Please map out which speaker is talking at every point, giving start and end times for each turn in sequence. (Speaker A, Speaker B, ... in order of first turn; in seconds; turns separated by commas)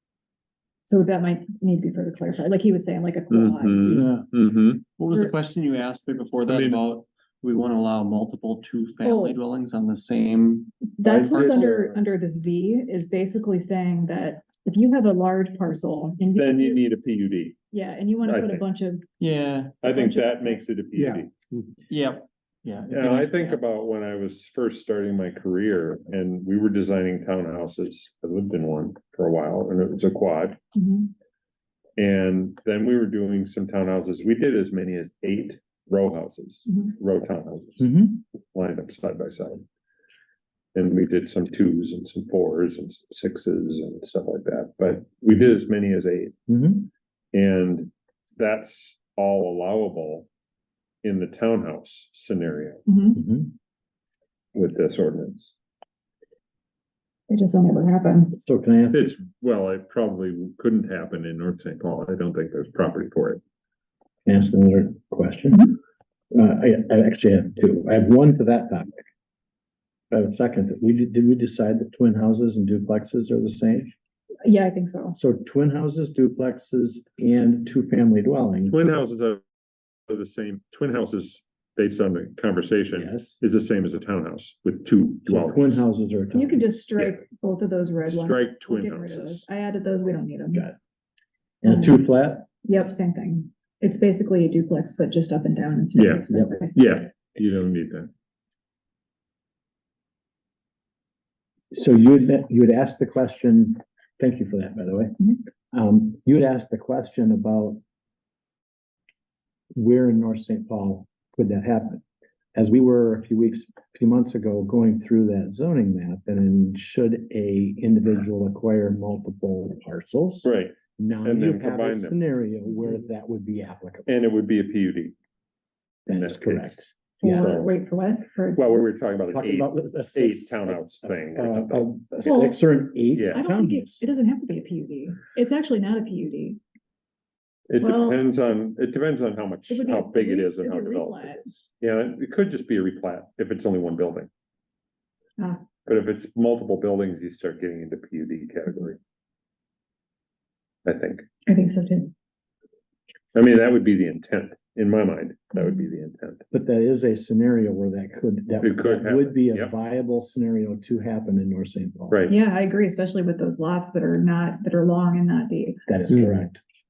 Speaker A: 0.9-4.0, Speaker B: 3.3-4.8, Speaker C: 3.9-4.3, Speaker C: 5.0-11.6, Speaker B: 6.5-6.8, Speaker A: 9.0-9.4, Speaker A: 10.9-16.8, Speaker D: 11.1-11.9, Speaker B: 11.1-11.8, Speaker B: 16.4-17.6, Speaker A: 17.7-19.0, Speaker B: 18.2-18.6, Speaker C: 19.2-19.8, Speaker B: 19.8-21.3, Speaker A: 19.8-20.6, Speaker C: 21.5-23.6, Speaker B: 22.9-30.6, Speaker A: 30.7-31.1, Speaker B: 32.0-37.9, Speaker D: 37.8-38.2, Speaker B: 38.5-39.6, Speaker B: 40.7-46.3, Speaker D: 46.5-46.9, Speaker B: 47.3-50.3, Speaker B: 51.0-52.8, Speaker A: 52.9-53.2, Speaker D: 53.1-53.5, Speaker B: 54.5-55.5, Speaker A: 57.3-58.4, Speaker D: 58.4-59.1, Speaker B: 58.9-63.4, Speaker D: 64.2-65.8, Speaker D: 66.3-69.0, Speaker D: 70.1-73.9, Speaker A: 74.4-75.2, Speaker D: 75.2-78.8, Speaker B: 78.7-79.4, Speaker B: 80.1-85.8, Speaker D: 82.9-83.4, Speaker D: 85.2-86.7, Speaker A: 86.3-90.7, Speaker B: 87.0-87.2, Speaker B: 88.0-89.5, Speaker D: 91.6-92.5, Speaker A: 91.6-92.0, Speaker A: 92.6-97.0, Speaker B: 96.0-98.1, Speaker D: 96.3-96.6, Speaker D: 101.7-107.8, Speaker D: 109.7-112.0, Speaker D: 112.5-124.1, Speaker B: 120.4-122.2, Speaker B: 124.0-125.2, Speaker D: 126.0-127.5, Speaker B: 126.1-127.7, Speaker A: 127.2-128.9, Speaker B: 128.5-132.3, Speaker D: 129.3-134.0, Speaker A: 132.2-132.6, Speaker B: 133.1-133.4, Speaker A: 133.3-136.6, Speaker B: 137.7-144.3, Speaker A: 137.8-138.2, Speaker A: 139.7-141.4, Speaker B: 145.8-149.0, Speaker B: 150.8-151.2, Speaker A: 151.5-152.1, Speaker B: 153.3-156.4, Speaker A: 155.5-155.9, Speaker D: 156.5-162.2, Speaker B: 158.6-159.7, Speaker A: 162.3-165.8, Speaker D: 165.9-166.6